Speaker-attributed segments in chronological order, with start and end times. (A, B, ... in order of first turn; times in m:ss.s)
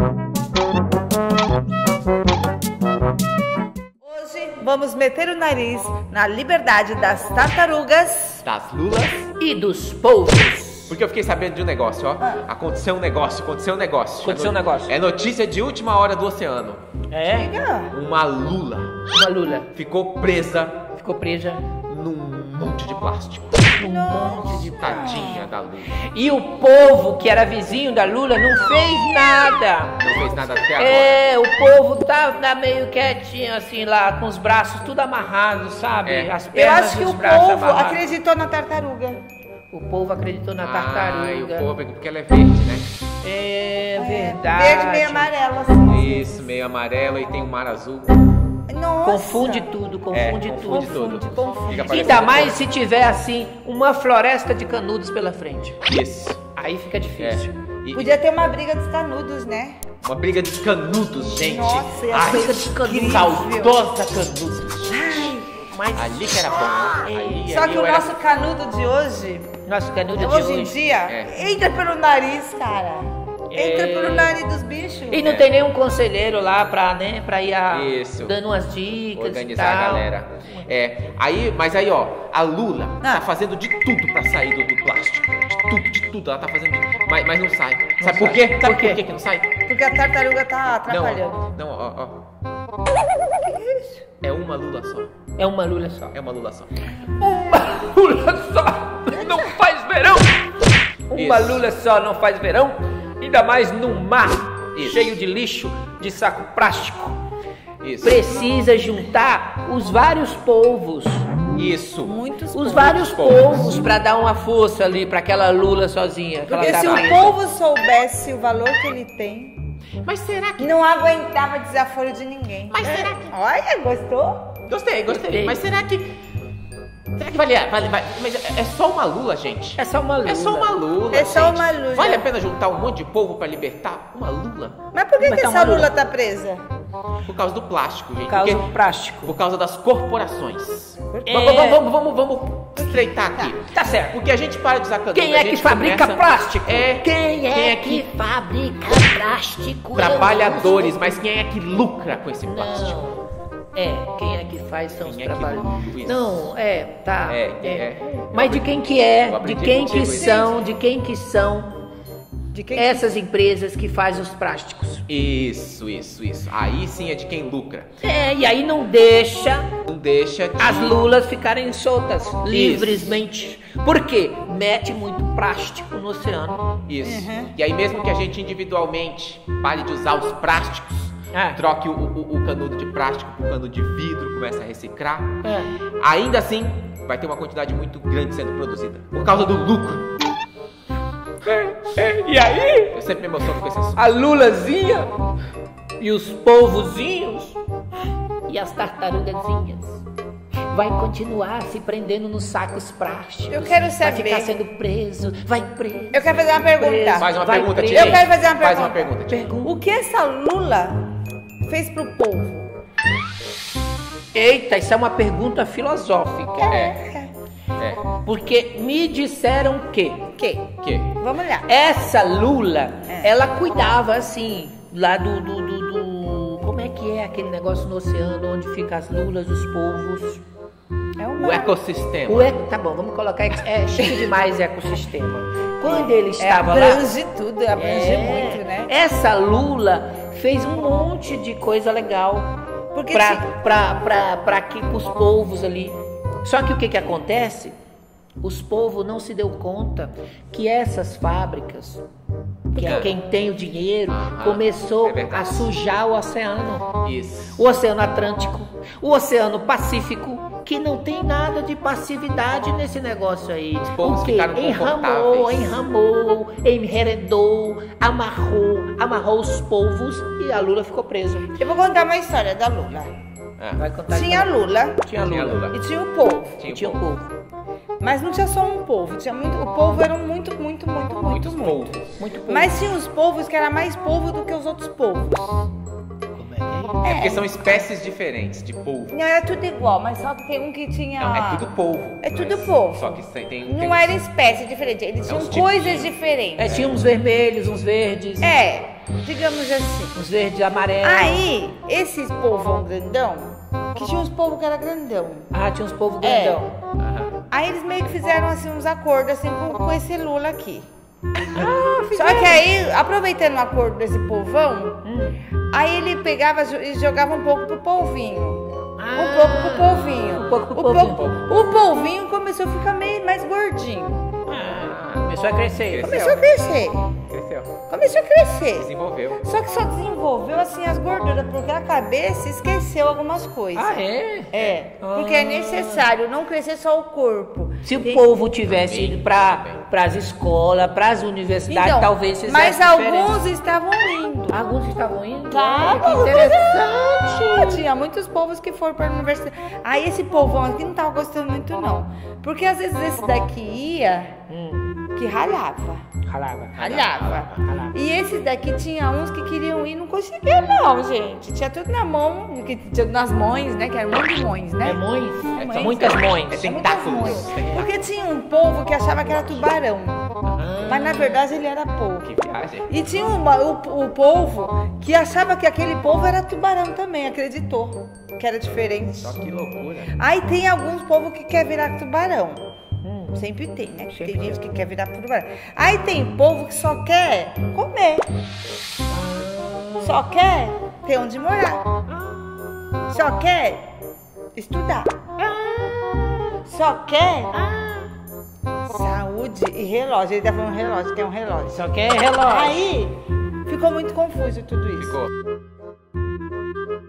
0:04.0-0:08.4 A
0:08.4-0:09.3 B
0:09.4-0:10.9 C
0:10.9-0:16.8 B
0:14.2-0:14.9 C
0:17.1-0:17.5 C
0:17.3-0:17.9 A
0:17.9-0:19.0 B
0:19.1-0:19.7 C
0:19.7-0:20.8 B
0:20.9-0:21.6 C
0:21.8-0:23.7 B
0:23.7-0:25.3 C
0:23.8-0:25.4 A
0:24.7-0:26.0 B
0:26.1-0:30.1 C
0:30.0-0:31.2 B
0:30.8-0:38.0 C
0:36.0-0:36.4 B
0:36.5-0:39.2 A
0:39.7-0:41.7 C
0:40.6-0:42.9 B
0:43.2-0:45.3 C
0:44.0-0:46.4 A
0:45.9-0:48.2 B
0:48.7-0:49.7 A
0:49.0-0:55.8 C
0:50.1-0:52.6 B
0:50.7-0:52.4 A
0:55.8-0:56.4 B
0:56.5-0:57.5 C
0:57.2-0:58.2 B
0:57.9-0:59.8 A
1:00.0-1:05.3 B
1:01.3-1:03.8 A
1:02.1-1:03.4 C
1:04.9-1:05.6 A
1:05.6-1:07.4 C
1:05.9-1:08.2 B
1:07.4-1:09.5 A
1:09.6-1:10.8 C
1:10.1-1:15.2 A
1:11.1-1:11.3 B
1:13.5-1:14.4 C
1:15.1-1:20.1 C
1:17.7-1:18.4 B
1:19.1-1:29.5 B
1:28.0-1:29.0 C
1:29.6-1:31.4 A
1:30.9-1:32.2 B
1:33.4-1:34.0 A
1:34.2-1:35.1 B
1:35.4-1:36.2 C
1:36.1-1:36.9 B
1:37.2-1:40.5 C
1:39.1-1:39.5 A
1:41.1-1:47.2 C
1:41.1-1:41.6 B
1:44.7-1:45.2 B
1:47.8-1:48.3 B
1:48.0-1:51.3 C
1:51.5-1:52.1 B
1:52.0-1:53.1 A
1:52.5-1:57.4 C
1:53.0-1:53.7 B
1:56.5-1:57.2 B
1:56.6-1:59.6 A
2:00.0-2:00.8 B
2:00.6-2:04.6 A
2:02.7-2:03.3 B
2:04.6-2:06.2 B
2:05.1-2:05.6 C
2:07.1-2:14.8 B
2:09.8-2:10.8 C
2:11.1-2:12.3 A
2:14.9-2:16.6 A
2:15.2-2:15.9 C
2:17.2-2:28.1 B
2:18.3-2:19.4 C
2:21.2-2:21.8 C
2:22.8-2:23.5 A
2:23.7-2:24.2 C
2:25.1-2:31.2 C
2:29.9-2:33.0 B
2:32.4-2:33.2 C
2:33.7-2:41.8 C
2:35.0-2:36.5 B
2:37.3-2:38.7 B
2:39.2-2:40.6 B
2:40.2-2:40.4 A
2:42.5-2:43.1 A
2:42.7-2:45.0 C
2:45.1-2:47.9 B
2:48.0-2:49.7 C
2:49.8-2:51.0 B
2:50.6-2:56.8 C
2:52.5-2:53.2 B
2:56.9-3:05.4 B
2:57.0-2:57.5 A
3:01.3-3:01.6 C
3:05.4-3:05.7 C
3:06.0-3:10.1 B
3:11.4-3:13.0 C
3:12.9-3:14.0 B
3:13.9-3:15.1 C
3:16.0-3:17.6 C
3:18.5-3:20.0 C
3:20.7-3:28.2 C
3:23.5-3:24.6 A
3:26.1-3:27.3 A
3:27.2-3:29.5 B
3:27.9-3:29.1 A
3:29.3-3:29.8 C
3:29.6-3:31.0 A
3:31.6-3:32.7 A
3:34.3-3:36.8 C
3:36.6-3:37.3 A
3:36.7-3:37.0 B
3:37.8-3:38.0 B
3:38.2-3:40.3 C
3:40.4-3:41.7 A
3:40.8-3:41.2 B
3:41.6-3:50.4 C
3:51.2-3:51.7 A
3:51.4-3:52.6 B
3:52.3-3:57.1 C
3:55.8-3:58.9 A
3:57.7-4:02.5 C
4:02.9-4:03.5 A
4:03.1-4:07.8 C
4:08.4-4:12.0 C
4:12.7-4:16.9 C
4:12.7-4:13.1 A
4:12.8-4:13.1 B
4:14.1-4:15.7 B
4:17.0-4:17.6 B
4:17.5-4:31.5 C
4:23.8-4:25.8 B
4:31.5-4:33.1 A
4:33.8-4:35.7 C
4:34.1-4:35.0 A
4:35.2-4:35.8 B
4:35.7-4:36.6 A
4:36.6-4:37.0 B
4:36.6-4:37.3 C
4:38.0-4:45.7 A
4:41.3-4:42.1 B
4:42.2-4:42.9 C
4:46.3-4:47.0 C
4:47.0-4:47.6 A
4:47.0-4:49.2 B
4:49.1-4:51.7 A
4:51.2-4:54.2 B
4:52.2-4:56.9 A
4:55.2-4:56.2 B
4:56.6-4:58.5 C
4:56.7-4:57.0 B
4:58.4-5:00.2 A
5:00.1-5:01.4 C
5:01.0-5:05.5 A
5:05.5-5:06.7 C
5:06.2-5:06.6 A
5:07.0-5:07.3 B
5:07.5-5:10.9 A
5:11.5-5:12.6 C
5:12.1-5:15.0 A
5:15.0-5:15.4 C
5:15.7-5:24.4 A
5:19.0-5:21.3 C
5:21.0-5:21.4 B
5:24.5-5:26.2 C
5:24.6-5:25.2 B
5:25.8-5:26.4 B
5:26.0-5:27.1 A
5:27.3-5:27.7 B
5:27.9-5:38.3 A
5:28.7-5:29.4 B
5:33.7-5:36.0 C
5:34.6-5:34.8 B
5:37.8-5:43.4 C
5:38.7-5:39.9 B
5:41.7-5:44.6 A
5:44.5-5:47.8 C
5:45.5-5:54.4 A
5:54.5-5:54.9 C
5:55.1-5:56.0 A
5:56.3-5:56.8 C
5:56.8-5:57.6 B
5:56.8-6:05.0 A
5:57.6-5:57.9 C
6:04.8-6:06.7 C
6:05.6-6:07.8 B
6:05.6-6:06.0 A
6:06.5-6:10.3 A
6:10.6-6:11.4 C
6:10.8-6:12.3 A
6:12.2-6:12.9 B
6:12.9-6:19.4 A
6:19.2-6:20.2 B
6:20.1-6:22.6 A
6:23.0-6:23.4 C
6:23.3-6:28.3 A
6:24.1-6:24.6 C
6:29.1-6:30.2 C
6:30.0-6:31.9 A
6:32.1-6:32.4 C
6:33.1-6:33.8 A
6:34.5-6:35.3 A
6:35.4-6:36.6 C
6:36.6-6:37.5 A
6:37.5-6:38.1 C
6:38.8-6:41.8 A
6:41.7-6:42.9 C
6:42.4-6:45.2 A